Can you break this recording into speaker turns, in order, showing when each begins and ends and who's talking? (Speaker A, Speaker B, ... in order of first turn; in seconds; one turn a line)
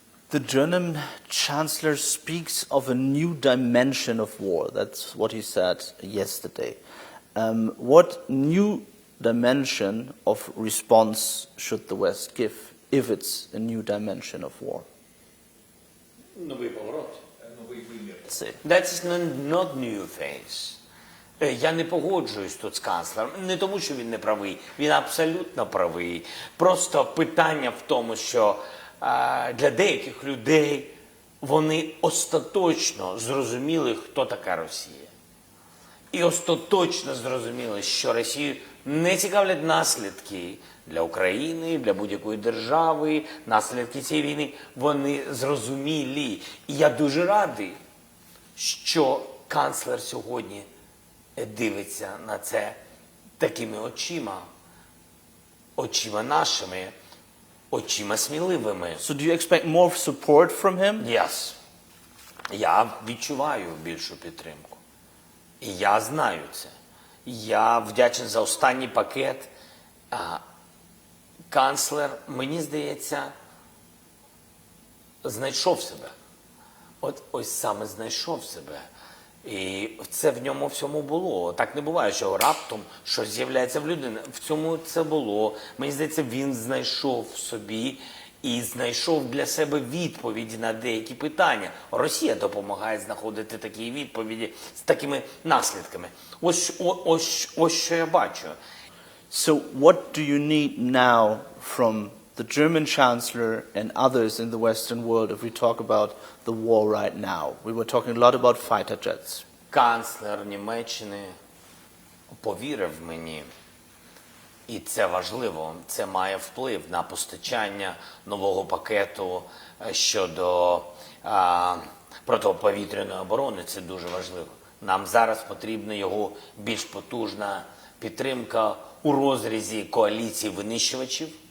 Speaker A: 0.3-6.8
Speaker A: 7.3-14.9
Speaker B: 16.3-18.1
Speaker A: 18.2-18.6
Speaker B: 18.6-20.8
Speaker B: 21.4-35.1
Speaker B: 36.1-47.8
Speaker B: 48.5-50.7
Speaker B: 51.4-52.8
Speaker B: 53.4-54.5
Speaker B: 55.8-56.9
Speaker B: 57.7-59.0
Speaker A: 59.0-61.1
Speaker B: 61.0-61.6
Speaker B: 62.5-64.8
Speaker B: 65.6-66.7
Speaker B: 67.2-69.5
Speaker B: 70.1-70.4
Speaker B: 71.5-73.3
Speaker B: 75.2-76.1
Speaker B: 77.0-78.8
Speaker B: 79.4-98.5
Speaker A: 99.3-109.4
Speaker B: 109.7-111.3
Speaker B: 112.3-113.5
Speaker B: 114.7-131.4